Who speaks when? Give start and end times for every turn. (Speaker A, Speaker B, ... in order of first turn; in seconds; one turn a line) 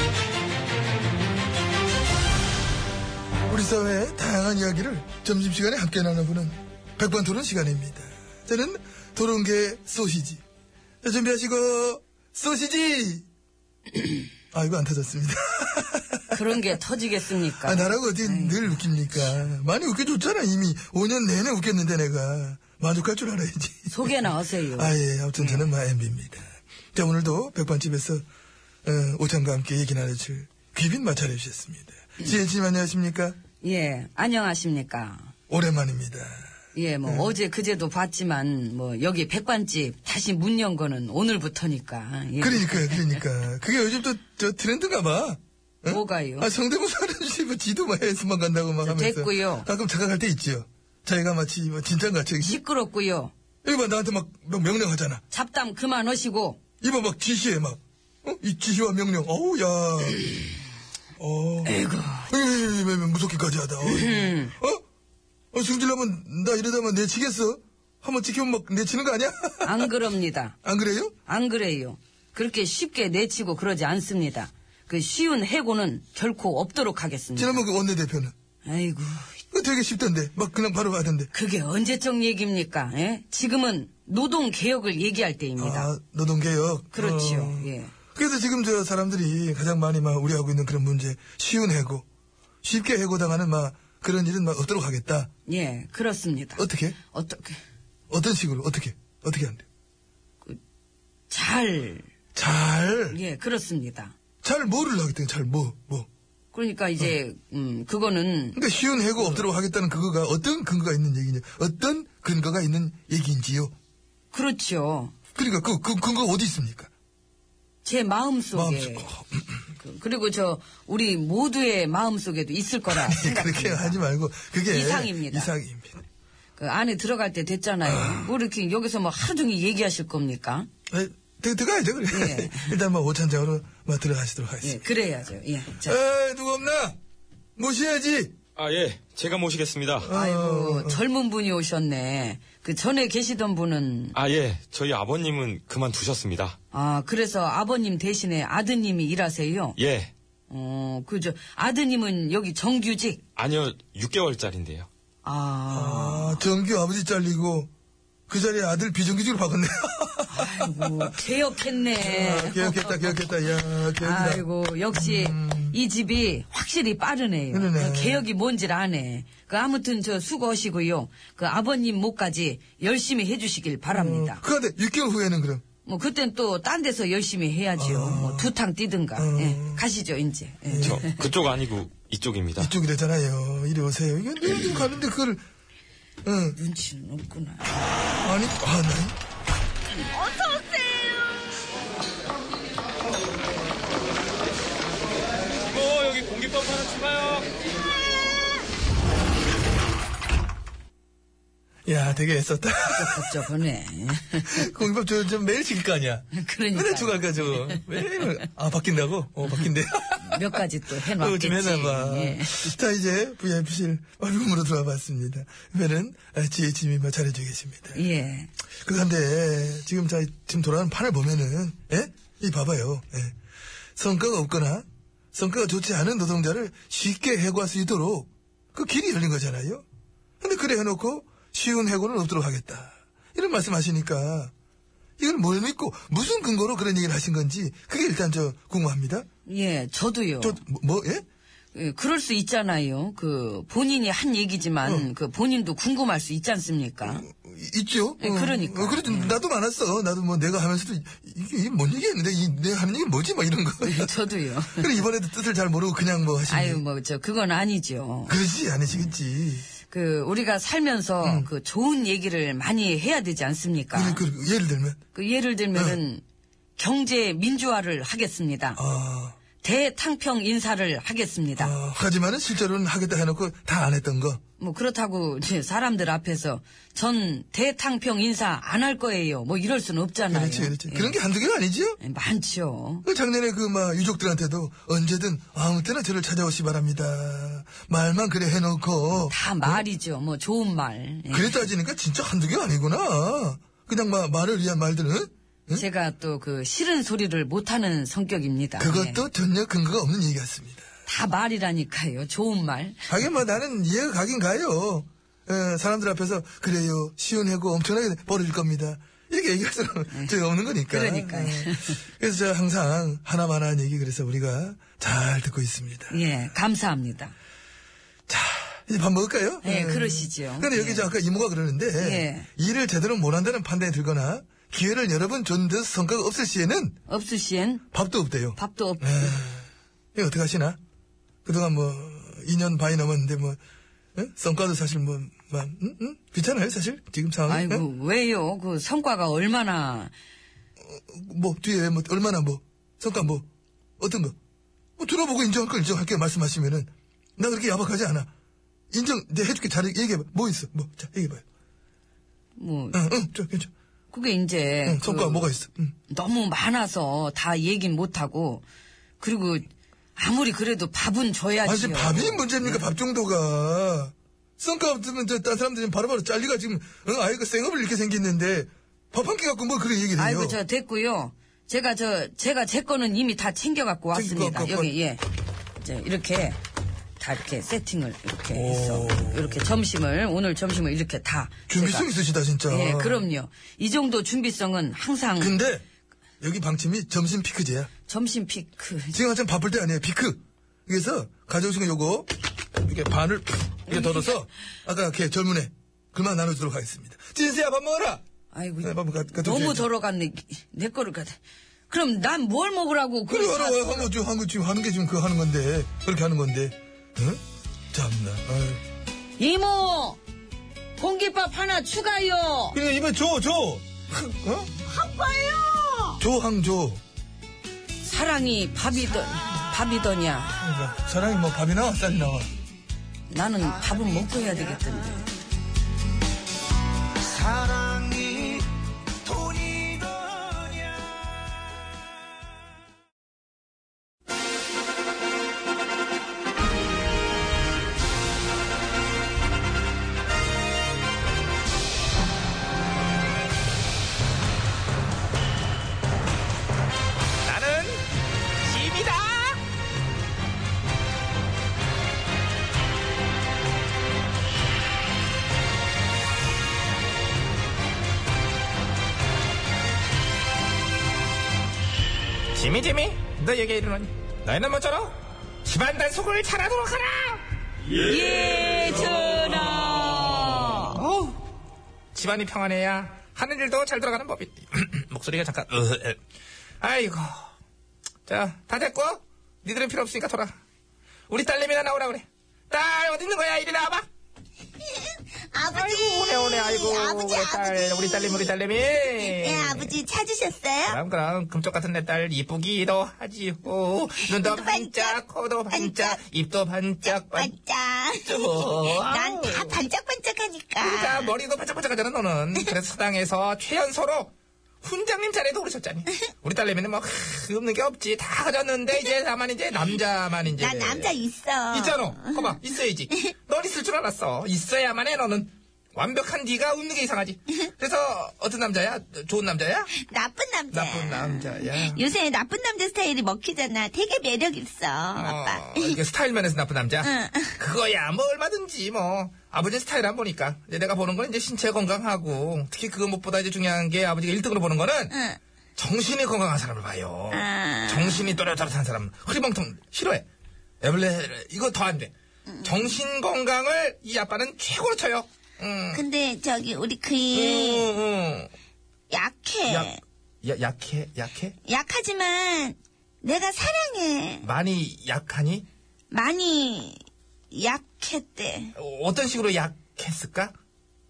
Speaker A: 3.5-10.4
Speaker A: 11.0-13.3
Speaker A: 14.5-16.6
Speaker B: 16.3-18.9
Speaker A: 17.6-28.2
Speaker B: 23.9-25.7
Speaker A: 28.9-33.4
Speaker B: 33.6-35.3
Speaker A: 35.5-36.4
Speaker B: 36.8-43.2
Speaker A: 37.0-37.4
Speaker A: 42.4-52.6
Speaker B: 45.9-46.5
Speaker B: 48.8-49.7
Speaker B: 52.4-53.3
Speaker A: 53.6-55.2
Speaker B: 55.3-56.6
Speaker A: 56.8-60.4
Speaker A: 61.2-64.8
Speaker B: 61.6-62.3
Speaker B: 63.8-64.5
Speaker A: 65.5-69.9
Speaker B: 69.6-70.6
Speaker A: 70.6-71.1
Speaker B: 71.3-77.6
Speaker A: 77.4-78.3
Speaker B: 78.7-79.3
Speaker A: 79.5-81.3
Speaker B: 81.3-85.9
Speaker A: 85.6-92.0
Speaker B: 86.9-87.9
Speaker A: 92.6-95.3
Speaker B: 95.5-97.6
Speaker A: 96.6-97.0
Speaker A: 98.1-99.7
Speaker B: 101.3-102.1
Speaker A: 102.3-103.2
Speaker B: 103.1-104.1
Speaker A: 104.4-106.1
Speaker B: 106.5-108.6
Speaker A: 108.5-113.7
Speaker B: 114.3-115.1
Speaker A: 115.3-116.9
Speaker B: 117.8-119.1
Speaker A: 118.5-119.4
Speaker B: 119.8-124.0
Speaker A: 122.9-126.0
Speaker B: 124.7-125.5
Speaker B: 126.6-130.7
Speaker A: 127.8-128.3
Speaker A: 130.9-134.9
Speaker B: 132.1-132.8
Speaker B: 134.6-136.0
Speaker A: 135.8-137.0
Speaker A: 137.6-138.3
Speaker C: 138.6-140.1
Speaker A: 140.0-141.0
Speaker B: 140.1-144.2
Speaker C: 144.1-146.6
Speaker B: 146.7-149.8
Speaker C: 149.8-150.1
Speaker B: 150.5-153.2
Speaker C: 153.4-154.9
Speaker B: 155.2-156.4
Speaker A: 155.7-157.7
Speaker A: 158.3-161.2
Speaker B: 160.3-163.3
Speaker A: 161.9-165.8
Speaker B: 163.9-174.4
Speaker A: 167.5-168.3
Speaker A: 173.9-175.6
Speaker B: 175.8-181.3
Speaker A: 177.8-178.5
Speaker A: 179.2-179.8
Speaker A: 180.7-181.0
Speaker C: 180.8-182.7
Speaker A: 182.6-185.4
Speaker A: 186.2-186.6
Speaker B: 186.6-187.7
Speaker A: 188.2-189.2
Speaker B: 190.2-190.8
Speaker C: 195.9-197.4
Speaker A: 201.9-203.4
Speaker B: 202.9-204.7
Speaker A: 204.4-218.0
Speaker B: 206.3-208.2
Speaker B: 210.2-212.8
Speaker B: 217.9-218.5
Speaker A: 218.8-223.4
Speaker A: 224.0-229.8
Speaker A: 230.4-234.5
Speaker A: 235.2-239.3
Speaker B: 239.5-240.6
Speaker A: 240.4-241.2
Speaker B: 241.7-247.2
Speaker A: 244.8-245.1
Speaker A: 247.0-254.1
Speaker B: 248.2-249.4
Speaker B: 253.8-255.0
Speaker A: 254.7-256.8
Speaker B: 256.5-258.4
Speaker A: 258.3-259.7
Speaker B: 259.9-264.2
Speaker A: 261.2-261.5
Speaker A: 263.9-265.0
Speaker B: 265.1-266.2
Speaker A: 265.7-266.0
Speaker B: 266.8-268.8
Speaker A: 268.8-269.4
Speaker B: 269.6-271.7
Speaker A: 271.6-274.4
Speaker B: 274.6-281.2
Speaker A: 280.3-282.0
Speaker B: 282.0-283.0
Speaker A: 283.0-289.9
Speaker B: 289.3-291.6
Speaker A: 291.3-295.9
Speaker B: 295.7-299.2
Speaker A: 298.8-300.9
Speaker B: 301.1-303.1
Speaker A: 303.1-316.2
Speaker B: 310.9-312.0
Speaker B: 316.1-317.3
Speaker A: 318.3-327.0
Speaker B: 319.6-321.1
Speaker B: 322.0-322.5
Speaker B: 327.1-327.9
Speaker A: 327.9-330.8
Speaker B: 328.6-329.4
Speaker A: 331.4-333.6
Speaker A: 334.1-337.9
Speaker B: 337.5-340.1
Speaker A: 340.8-343.5
Speaker A: 344.0-344.4
Speaker A: 345.0-348.3
Speaker A: 348.9-351.4
Speaker B: 352.6-353.0
Speaker A: 352.9-353.7
Speaker B: 354.1-355.6
Speaker A: 354.9-355.9
Speaker B: 356.1-358.6
Speaker B: 359.2-362.9
Speaker A: 361.6-370.6
Speaker B: 370.2-375.2
Speaker A: 374.1-374.9
Speaker B: 375.8-376.6
Speaker B: 377.2-382.1
Speaker A: 378.5-379.7
Speaker A: 381.7-383.3
Speaker B: 382.7-385.6
Speaker A: 385.4-385.8
Speaker A: 386.4-387.9
Speaker B: 388.1-389.2
Speaker A: 389.1-398.2
Speaker B: 393.9-394.4
Speaker B: 398.5-401.4
Speaker A: 398.8-399.9
Speaker B: 401.9-404.1
Speaker A: 403.3-407.4
Speaker A: 407.9-408.8
Speaker B: 409.4-410.2
Speaker B: 411.0-412.8
Speaker A: 412.7-414.7
Speaker D: 415.0-416.0
Speaker A: 416.2-417.0
Speaker B: 418.0-420.5
Speaker A: 420.6-422.5
Speaker B: 423.3-425.3
Speaker E: 447.4-448.0
Speaker E: 448.6-449.6
Speaker E: 462.5-467.4
Speaker B: 467.9-471.0
Speaker E: 470.9-471.4
Speaker E: 472.1-476.2
Speaker E: 476.8-477.5
Speaker E: 478.3-480.6
Speaker E: 481.3-484.1
Speaker D: 484.8-488.6
Speaker E: 485.7-490.0
Speaker D: 489.1-491.0
Speaker E: 490.9-497.5
Speaker D: 494.2-496.2
Speaker D: 497.0-501.3
Speaker E: 498.2-499.8
Speaker E: 500.8-504.3
Speaker E: 504.8-511.2
Speaker D: 510.5-512.6
Speaker E: 511.7-519.9
Speaker D: 519.9-526.0
Speaker E: 520.7-522.1
Speaker E: 525.2-535.1
Speaker D: 527.0-527.6
Speaker D: 535.1-535.4
Speaker E: 535.8-540.3
Speaker D: 537.3-538.4
Speaker E: 540.8-542.1
Speaker D: 542.5-542.9
Speaker E: 542.6-546.0
Speaker D: 545.9-547.9
Speaker E: 547.3-548.5
Speaker D: 549.1-550.0
Speaker E: 549.7-551.6
Speaker D: 551.7-554.5
Speaker E: 554.4-555.7
Speaker D: 556.1-558.8
Speaker E: 558.8-560.5